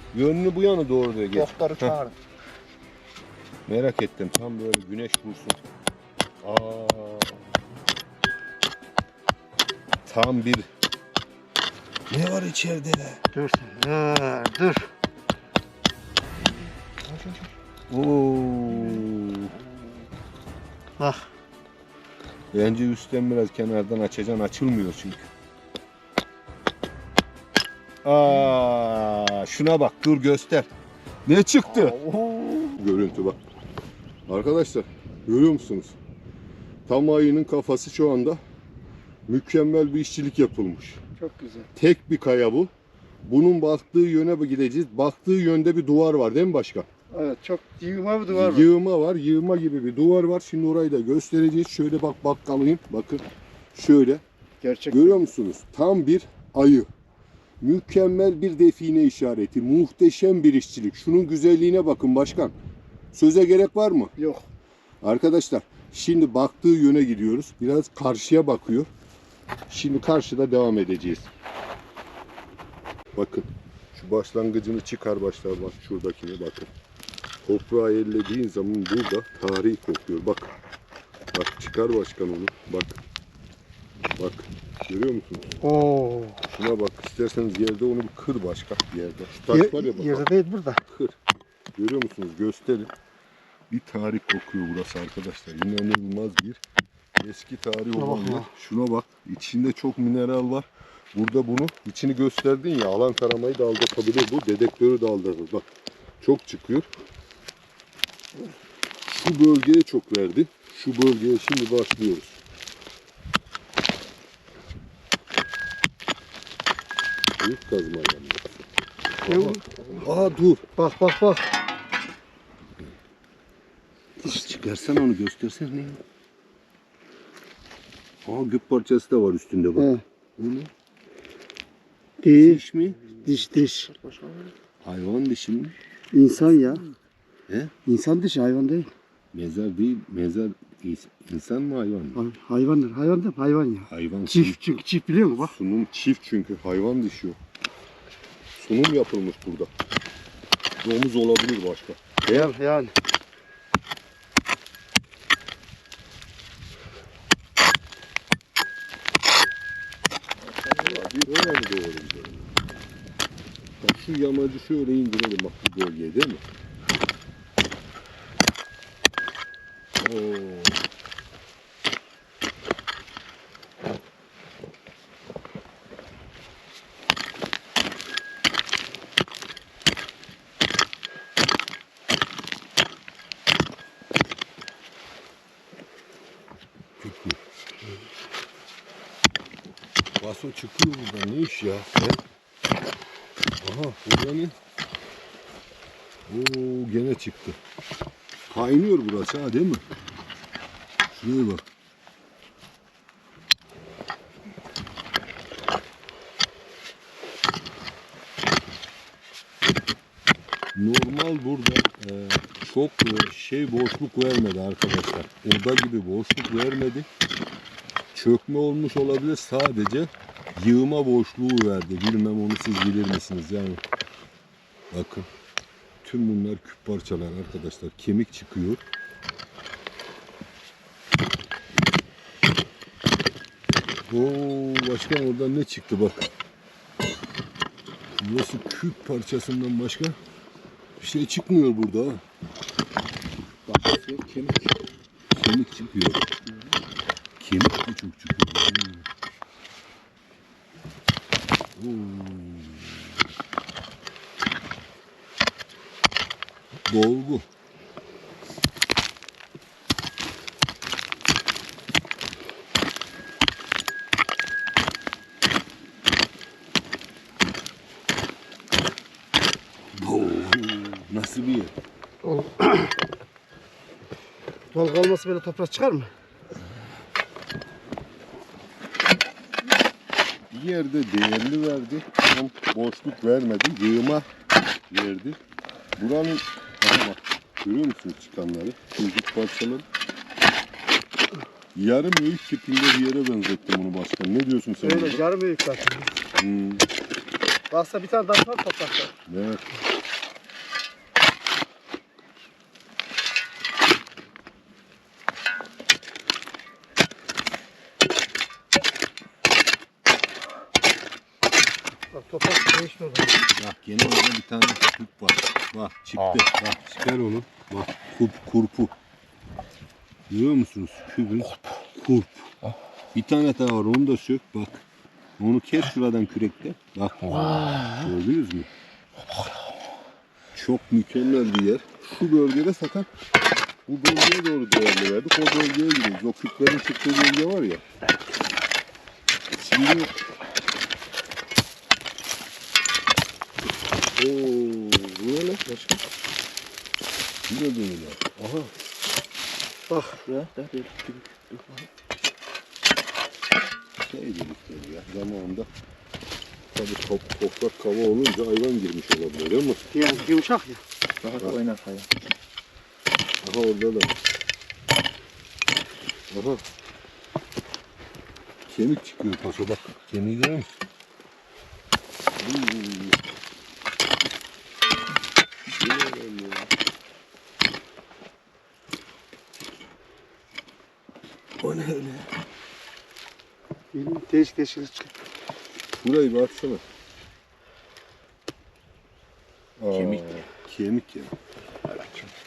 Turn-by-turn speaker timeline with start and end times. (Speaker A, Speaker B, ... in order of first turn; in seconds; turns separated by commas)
Speaker A: 0.1-2.0, Speaker B: 1.3-2.1, Speaker A: 3.6-5.6, Speaker A: 6.4-7.6, Speaker A: 10.0-10.7, Speaker A: 12.1-13.2, Speaker C: 13.3-14.9, Speaker B: 17.0-17.5, Speaker A: 17.9-19.5, Speaker C: 21.0-21.3, Speaker A: 22.5-25.3, Speaker A: 28.0-30.7, Speaker A: 31.2-32.0, Speaker C: 32.0-32.5, Speaker A: 32.5-33.4, Speaker A: 34.3-36.0, Speaker A: 36.9-38.4, Speaker A: 39.3-41.0, Speaker C: 41.2-41.7, Speaker A: 41.8-42.7, Speaker A: 43.2-46.9, Speaker C: 47.1-48.7, Speaker A: 48.3-53.2, Speaker A: 53.7-54.2, Speaker C: 54.6-55.2, Speaker A: 54.9-56.9, Speaker A: 57.6-62.5, Speaker A: 63.1-64.1, Speaker C: 64.2-64.5, Speaker A: 65.0-68.9, Speaker A: 69.7-71.3, Speaker A: 73.1-76.7, Speaker A: 77.4-80.5, Speaker A: 81.3-83.0, Speaker A: 84.2-85.6, Speaker C: 85.6-86.5, Speaker A: 86.5-90.3, Speaker C: 89.5-90.8, Speaker A: 90.9-91.2, Speaker A: 91.8-92.9, Speaker A: 93.7-96.6, Speaker A: 97.2-105.7, Speaker C: 97.9-98.5, Speaker A: 106.2-106.9, Speaker A: 109.0-112.4, Speaker A: 117.4-118.6, Speaker C: 119.2-119.6, Speaker A: 119.2-120.6, Speaker C: 120.8-121.5, Speaker A: 124.2-126.0, Speaker A: 128.2-130.7, Speaker C: 129.8-130.0, Speaker C: 132.2-132.6, Speaker A: 132.3-133.0, Speaker B: 132.9-134.5, Speaker C: 133.2-133.9, Speaker A: 134.8-135.8, Speaker C: 136.1-136.8, Speaker C: 137.8-138.9, Speaker A: 139.3-142.2, Speaker C: 142.2-145.6, Speaker A: 143.9-144.6, Speaker A: 145.4-147.4, Speaker A: 148.6-149.7, Speaker A: 150.8-152.5, Speaker C: 152.3-152.9, Speaker B: 160.4-161.6, Speaker A: 160.8-162.5, Speaker A: 163.8-166.4, Speaker A: 170.0-170.8, Speaker A: 187.0-187.4, Speaker A: 190.2-192.2, Speaker A: 193.6-194.5, Speaker A: 196.3-197.6, Speaker A: 198.5-199.8, Speaker A: 201.1-201.6, Speaker A: 210.7-217.1, Speaker A: 218.1-223.8, Speaker A: 224.9-225.3, Speaker A: 226.0-228.8, Speaker A: 234.1-236.3, Speaker A: 238.2-240.2, Speaker A: 241.0-242.2, Speaker A: 243.7-244.8, Speaker A: 245.3-246.3, Speaker A: 247.4-249.1, Speaker A: 251.8-253.2, Speaker A: 256.9-257.5, Speaker A: 269.9-271.7, Speaker C: 272.2-272.9, Speaker C: 274.7-276.1, Speaker A: 280.5-284.3, Speaker A: 284.9-285.4, Speaker A: 286.0-289.9, Speaker A: 291.8-295.2, Speaker C: 294.8-296.1, Speaker A: 296.4-296.9, Speaker C: 297.7-299.1, Speaker A: 299.3-299.7, Speaker C: 312.1-313.4, Speaker A: 313.5-318.9, Speaker A: 320.3-322.5, Speaker A: 323.1-324.8, Speaker A: 325.4-328.7, Speaker B: 327.3-328.1, Speaker A: 330.5-333.1, Speaker A: 333.9-337.8, Speaker A: 339.6-340.1, Speaker A: 344.2-345.9, Speaker B: 345.7-346.0, Speaker A: 347.5-348.7, Speaker C: 349.9-350.2, Speaker B: 350.2-351.9, Speaker A: 354.0-355.7, Speaker A: 356.7-359.9, Speaker C: 359.9-360.8, Speaker B: 361.2-362.3, Speaker A: 363.4-364.2, Speaker A: 366.3-366.6, Speaker A: 368.7-370.8, Speaker A: 372.4-373.2, Speaker A: 375.8-376.7, Speaker A: 381.6-382.3, Speaker C: 383.9-385.2, Speaker A: 385.9-386.8, Speaker A: 389.8-391.3, Speaker B: 389.9-390.4, Speaker B: 391.9-392.4